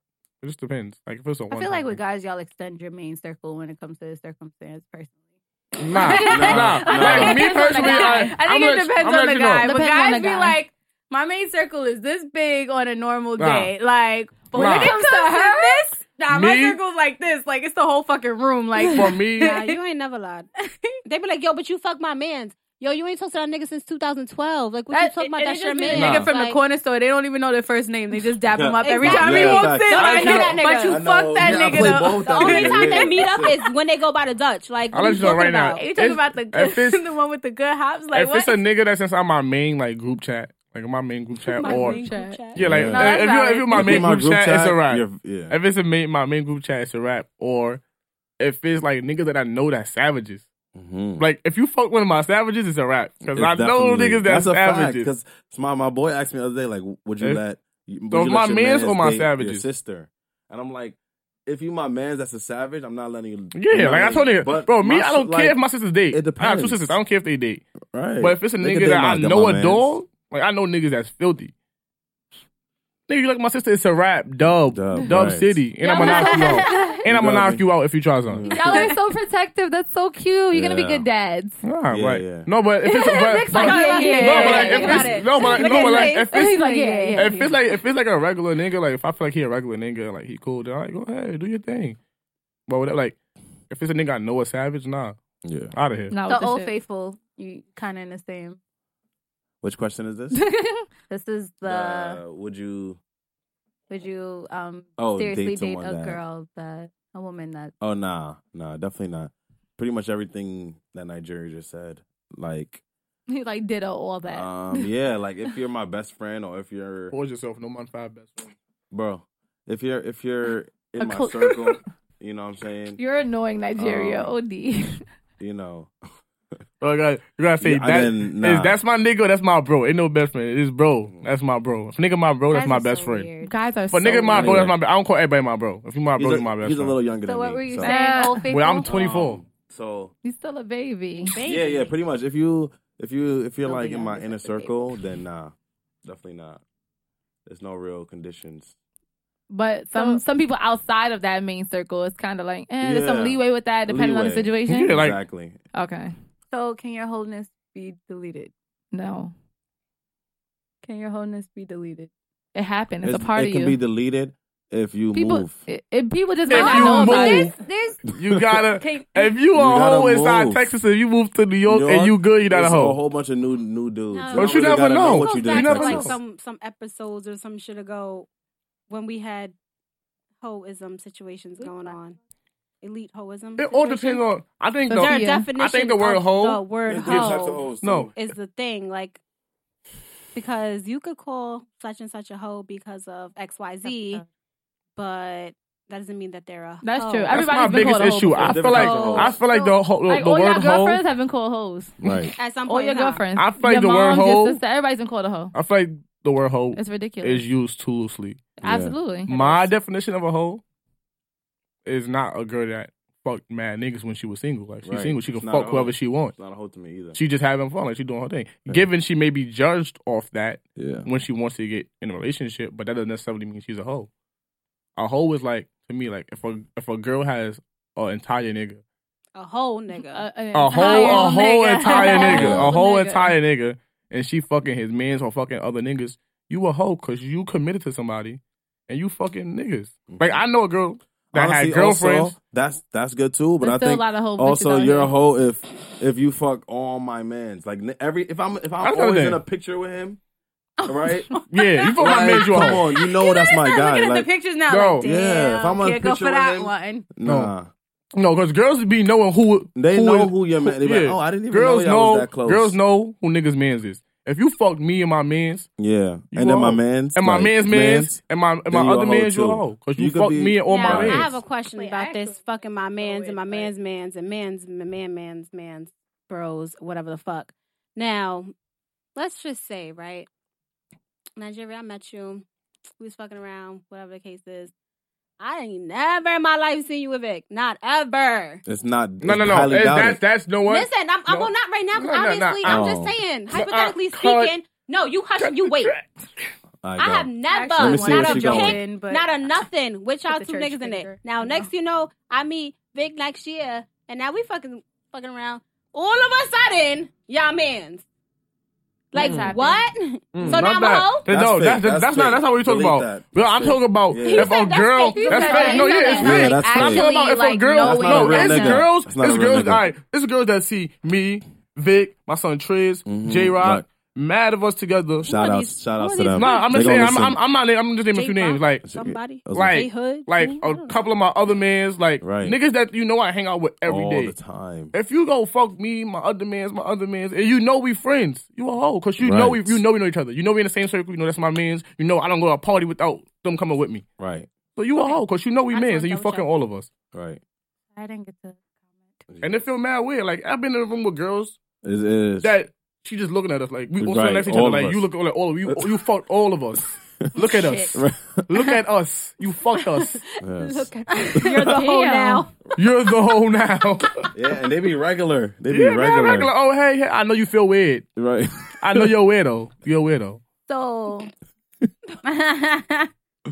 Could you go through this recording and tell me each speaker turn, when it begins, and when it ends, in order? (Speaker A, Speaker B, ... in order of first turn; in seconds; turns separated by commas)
Speaker A: 0.4-2.0, Speaker B: 1.5-5.2, Speaker A: 5.8-9.7, Speaker B: 5.9-19.8, Speaker C: 6.0-8.4, Speaker D: 6.3-7.4, Speaker C: 9.6-10.6, Speaker A: 13.4-13.7, Speaker C: 14.5-15.9, Speaker A: 14.6-14.9, Speaker A: 16.3-16.8, Speaker A: 18.9-19.6, Speaker E: 19.4-20.5, Speaker B: 20.7-21.0, Speaker E: 21.0-26.6, Speaker B: 24.9-33.5, Speaker A: 25.9-26.3, Speaker D: 28.5-30.2, Speaker E: 28.8-35.8, Speaker A: 29.9-30.6, Speaker D: 30.8-33.6, Speaker A: 34.9-37.0, Speaker B: 35.8-38.6, Speaker A: 38.1-42.0, Speaker E: 41.5-42.9, Speaker C: 41.6-42.4, Speaker D: 42.6-43.2, Speaker A: 42.6-47.8, Speaker B: 42.9-44.1, Speaker D: 43.7-45.5, Speaker A: 48.4-50.5, Speaker D: 50.7-51.2, Speaker A: 51.2-55.1, Speaker D: 53.3-65.6, Speaker A: 58.1-59.6, Speaker A: 63.5-67.7, Speaker D: 66.1-67.0, Speaker D: 67.9-69.9, Speaker A: 68.2-71.5, Speaker A: 73.1-78.5, Speaker D: 74.4-75.6, Speaker C: 75.8-77.0, Speaker B: 76.0-77.0, Speaker D: 77.1-77.7, Speaker D: 78.3-78.8, Speaker C: 78.4-81.6, Speaker B: 78.5-78.9, Speaker D: 80.5-81.1, Speaker A: 81.6-86.6, Speaker D: 81.9-82.5, Speaker C: 82.8-87.5, Speaker B: 83.5-87.5, Speaker E: 83.5-86.8, Speaker A: 87.1-92.0, Speaker A: 92.7-93.2, Speaker A: 93.7-95.2, Speaker D: 95.4-95.7, Speaker A: 95.7-96.2, Speaker C: 96.1-96.7, Speaker B: 96.3-98.6, Speaker D: 99.6-100.4, Speaker C: 100.3-100.8, Speaker B: 101.1-102.2, Speaker D: 101.6-103.0, Speaker B: 103.9-107.7, Speaker D: 105.0-106.2, Speaker D: 107.8-112.8, Speaker C: 113.3-114.9, Speaker D: 114.3-117.2, Speaker A: 117.1-118.5, Speaker D: 118.9-123.0, Speaker C: 121.0-121.7, Speaker C: 123.0-125.0, Speaker D: 123.8-124.3, Speaker D: 125.4-125.9, Speaker A: 126.8-133.3, Speaker D: 127.6-128.8, Speaker E: 132.5-133.5, Speaker C: 133.4-134.7, Speaker A: 133.9-137.0, Speaker D: 134.3-134.8, Speaker D: 136.2-137.9, Speaker B: 137.2-139.0, Speaker C: 137.8-138.4, Speaker A: 138.5-139.4, Speaker D: 138.9-140.1, Speaker C: 140.2-141.4, Speaker E: 141.3-141.9, Speaker D: 141.4-146.6, Speaker B: 143.7-144.7, Speaker D: 147.5-148.8, Speaker C: 149.5-154.9, Speaker B: 149.9-150.2, Speaker D: 152.8-155.6, Speaker A: 154.7-155.2, Speaker C: 155.7-156.1, Speaker B: 156.5-158.5, Speaker C: 158.9-159.3, Speaker B: 160.8-162.1, Speaker C: 162.6-163.8, Speaker D: 163.1-165.6, Speaker C: 165.1-167.5, Speaker A: 166.5-167.5, Speaker B: 166.5-168.0, Speaker A: 168.1-173.0, Speaker B: 168.8-169.3, Speaker D: 169.5-170.7, Speaker D: 171.7-176.2, Speaker E: 174.1-178.3, Speaker A: 174.3-176.2, Speaker E: 178.9-179.6, Speaker E: 180.4-182.2, Speaker E: 182.8-184.2, Speaker A: 183.6-188.1, Speaker C: 184.9-185.5, Speaker E: 184.9-189.2, Speaker D: 186.9-188.1, Speaker E: 190.3-194.2, Speaker B: 193.8-194.2, Speaker E: 195.0-197.5, Speaker C: 196.8-198.8, Speaker A: 197.3-201.0, Speaker D: 198.4-199.4, Speaker E: 198.6-199.4, Speaker B: 199.0-199.7, Speaker C: 200.1-202.0, Speaker D: 202.0-202.3, Speaker A: 202.0-202.3, Speaker E: 202.4-203.2, Speaker C: 202.7-205.5, Speaker A: 203.4-204.6, Speaker A: 205.5-208.6, Speaker C: 206.7-207.5, Speaker C: 208.6-209.7, Speaker D: 208.6-209.0, Speaker A: 209.3-210.6, Speaker A: 211.8-216.3, Speaker D: 214.8-217.2, Speaker A: 217.1-224.1, Speaker D: 220.8-221.1, Speaker A: 225.0-228.8, Speaker E: 229.3-230.3, Speaker C: 230.0-233.3, Speaker A: 230.5-242.3, Speaker B: 230.7-232.6, Speaker D: 232.2-232.7, Speaker D: 240.1-240.4, Speaker D: 241.3-250.2, Speaker C: 243.6-245.1, Speaker A: 248.8-249.4, Speaker B: 250.8-257.1, Speaker D: 250.9-251.4, Speaker A: 251.5-252.9, Speaker D: 252.0-254.3, Speaker A: 254.7-255.1, Speaker D: 255.0-257.7, Speaker E: 255.2-255.6, Speaker A: 257.2-257.5, Speaker A: 258.1-265.7, Speaker D: 259.8-262.8, Speaker D: 265.8-271.3, Speaker A: 266.3-271.3, Speaker B: 270.7-273.7, Speaker E: 270.7-278.5, Speaker E: 279.2-280.3, Speaker E: 281.4-282.4, Speaker E: 283.0-284.7, Speaker E: 285.4-288.6, Speaker D: 288.7-290.2, Speaker A: 289.2-292.9, Speaker E: 290.7-295.9, Speaker D: 292.6-293.2, Speaker A: 293.5-294.5, Speaker A: 295.4-296.5, Speaker D: 296.8-298.8, Speaker E: 297.0-308.1, Speaker B: 297.5-299.6, Speaker B: 300.3-301.7, Speaker E: 309.1-311.3, Speaker C: 309.1-309.9, Speaker A: 309.2-309.5, Speaker A: 310.3-325.4, Speaker D: 310.4-314.6, Speaker E: 314.2-316.6, Speaker C: 315.1-316.5, Speaker B: 315.3-318.9, Speaker D: 316.2-317.1, Speaker D: 317.8-319.9, Speaker D: 323.1-323.9, Speaker D: 325.2-327.4, Speaker E: 325.3-327.3, Speaker A: 326.3-328.9, Speaker E: 328.1-331.1, Speaker D: 328.9-329.9, Speaker A: 329.5-334.4, Speaker D: 332.2-332.6, Speaker D: 333.9-334.9, Speaker A: 334.9-344.1, Speaker D: 339.2-339.8, Speaker D: 344.2-344.5, Speaker A: 344.8-346.9, Speaker E: 345.7-346.5, Speaker D: 347.1-347.4, Speaker B: 347.9-348.6, Speaker D: 349.3-349.6, Speaker A: 349.4-351.6, Speaker D: 351.8-352.6, Speaker A: 352.4-360.2, Speaker D: 354.0-355.1, Speaker D: 355.7-355.9, Speaker B: 357.4-358.0, Speaker D: 357.9-358.5, Speaker E: 360.3-362.5, Speaker D: 360.4-361.4, Speaker B: 361.1-361.9, Speaker C: 361.6-362.5, Speaker A: 362.8-364.3, Speaker D: 364.3-366.5, Speaker A: 365.7-368.1, Speaker D: 368.2-369.1, Speaker A: 368.8-370.4, Speaker B: 370.7-371.3, Speaker B: 372.2-373.1